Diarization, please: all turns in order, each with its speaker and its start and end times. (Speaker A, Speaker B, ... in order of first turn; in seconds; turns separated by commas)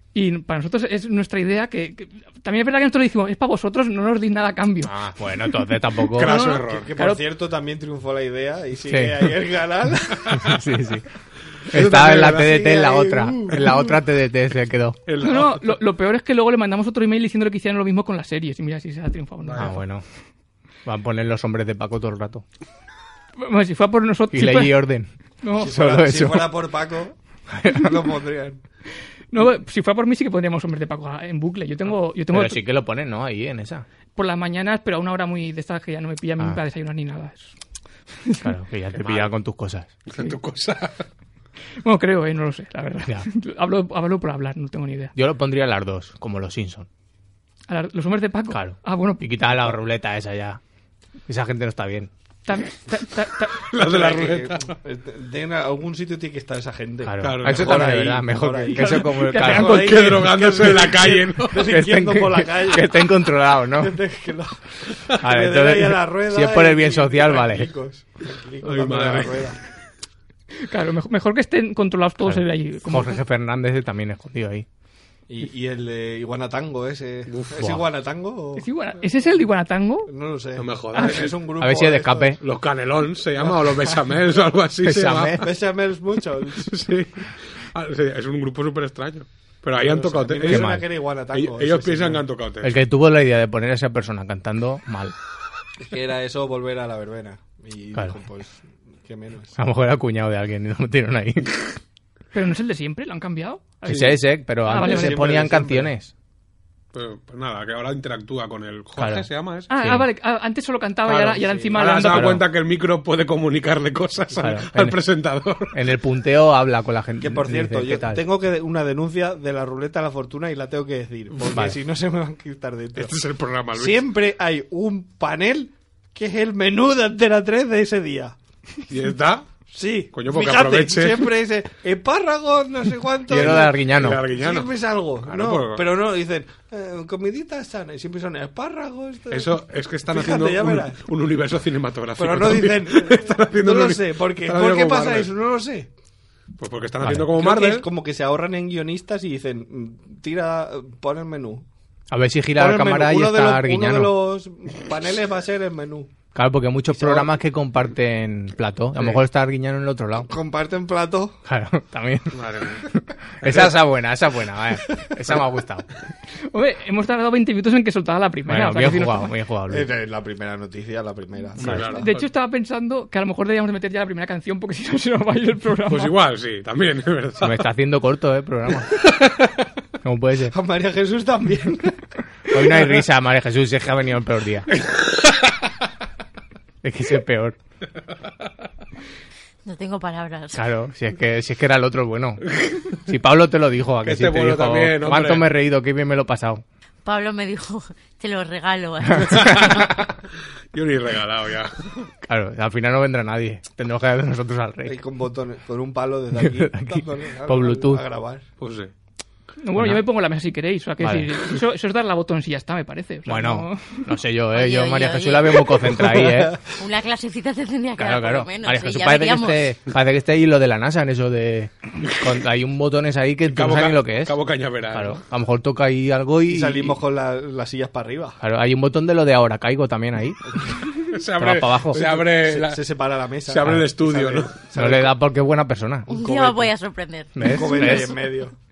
Speaker A: 0.1-4.9, Speaker B: 4.8-6.3, Speaker C: 6.2-6.9, Speaker A: 6.2-7.2, Speaker D: 6.6-10.6, Speaker B: 8.9-9.3, Speaker B: 10.3-11.1, Speaker B: 11.7-15.0, Speaker C: 11.7-12.6, Speaker D: 12.4-13.8, Speaker C: 15.1-15.7, Speaker A: 15.2-19.8, Speaker C: 19.4-19.7, Speaker B: 19.6-20.0, Speaker B: 20.9-22.4, Speaker A: 23.4-24.8, Speaker B: 24.3-25.1, Speaker A: 25.4-25.7, Speaker D: 25.6-28.6, Speaker B: 25.6-26.6, Speaker B: 27.6-27.9, Speaker A: 29.3-32.6, Speaker B: 32.3-33.9, Speaker A: 34.2-37.5, Speaker A: 38.2-38.5, Speaker B: 38.4-39.9, Speaker C: 39.0-39.3, Speaker C: 40.1-41.1, Speaker A: 41.8-45.1, Speaker B: 45.1-46.9, Speaker A: 47.7-49.2, Speaker B: 48.5-50.6, Speaker B: 51.3-52.1, Speaker A: 52.5-53.6, Speaker C: 53.6-54.8, Speaker D: 53.8-69.6, Speaker B: 57.0-60.0, Speaker C: 57.2-58.2, Speaker A: 58.7-59.8, Speaker C: 59.4-61.7, Speaker B: 61.6-64.0, Speaker B: 65.2-67.7, Speaker C: 68.6-69.5, Speaker A: 70.6-73.2, Speaker B: 72.2-74.7, Speaker D: 75.3-78.7, Speaker C: 77.3-77.7, Speaker A: 78.6-80.1, Speaker D: 80.1-82.4, Speaker C: 80.6-81.3, Speaker B: 81.6-82.4, Speaker C: 82.4-85.5, Speaker B: 84.8-85.5, Speaker D: 85.4-86.7, Speaker C: 86.6-92.8, Speaker D: 89.8-92.2, Speaker B: 90.4-90.9, Speaker B: 92.6-95.2, Speaker D: 95.8-99.6, Speaker B: 99.6-101.6, Speaker A: 102.3-105.2, Speaker B: 103.8-106.1, Speaker D: 104.7-105.9, Speaker C: 106.9-109.7, Speaker B: 109.0-109.3, Speaker A: 109.7-112.4, Speaker B: 109.8-110.1, Speaker C: 111.1-115.8, Speaker D: 111.4-112.0, Speaker B: 112.1-112.5, Speaker B: 114.3-115.0, Speaker B: 115.7-118.2, Speaker D: 117.2-123.1, Speaker B: 121.5-121.8, Speaker C: 123.0-124.1, Speaker D: 123.7-128.4, Speaker C: 128.9-129.5, Speaker D: 129.7-141.0, Speaker C: 130.1-131.3, Speaker B: 133.3-134.2, Speaker C: 133.3-134.7, Speaker C: 135.2-135.9, Speaker C: 139.3-145.3, Speaker D: 142.2-145.9, Speaker C: 146.6-147.9, Speaker B: 147.0-147.3, Speaker D: 147.3-151.7, Speaker B: 152.1-154.2, Speaker D: 152.6-156.1, Speaker B: 156.3-160.3, Speaker D: 156.9-157.3, Speaker D: 160.2-161.4, Speaker B: 161.5-165.9, Speaker C: 162.3-162.9, Speaker A: 166.5-169.3, Speaker B: 168.5-169.9, Speaker D: 169.7-172.1, Speaker C: 171.6-172.2, Speaker B: 171.6-171.9, Speaker A: 171.9-176.1, Speaker C: 175.9-177.7, Speaker B: 177.4-179.1, Speaker B: 180.0-180.6, Speaker D: 180.5-182.0, Speaker B: 182.5-184.7, Speaker B: 186.8-187.6, Speaker E: 189.7-190.6, Speaker B: 190.5-192.4, Speaker C: 192.5-192.9, Speaker B: 193.1-196.6, Speaker C: 194.1-195.5, Speaker E: 197.1-199.7, Speaker B: 199.1-200.0, Speaker C: 199.3-200.1, Speaker C: 200.7-202.1, Speaker B: 202.3-205.0, Speaker D: 204.9-208.4, Speaker B: 206.3-208.1, Speaker C: 208.6-208.9, Speaker A: 209.6-214.1, Speaker B: 209.8-210.0, Speaker B: 211.0-211.4, Speaker B: 213.3-216.6, Speaker E: 214.5-215.8, Speaker D: 215.8-216.6, Speaker E: 216.8-219.7, Speaker B: 218.0-224.4, Speaker C: 223.5-225.2, Speaker B: 224.9-227.0, Speaker D: 226.5-228.4, Speaker B: 228.4-230.5, Speaker C: 231.1-232.8, Speaker B: 231.4-232.3, Speaker D: 232.1-235.2, Speaker C: 233.5-234.6, Speaker B: 234.7-236.1, Speaker D: 236.1-236.7, Speaker E: 236.1-238.0, Speaker B: 237.3-238.2, Speaker D: 237.4-238.5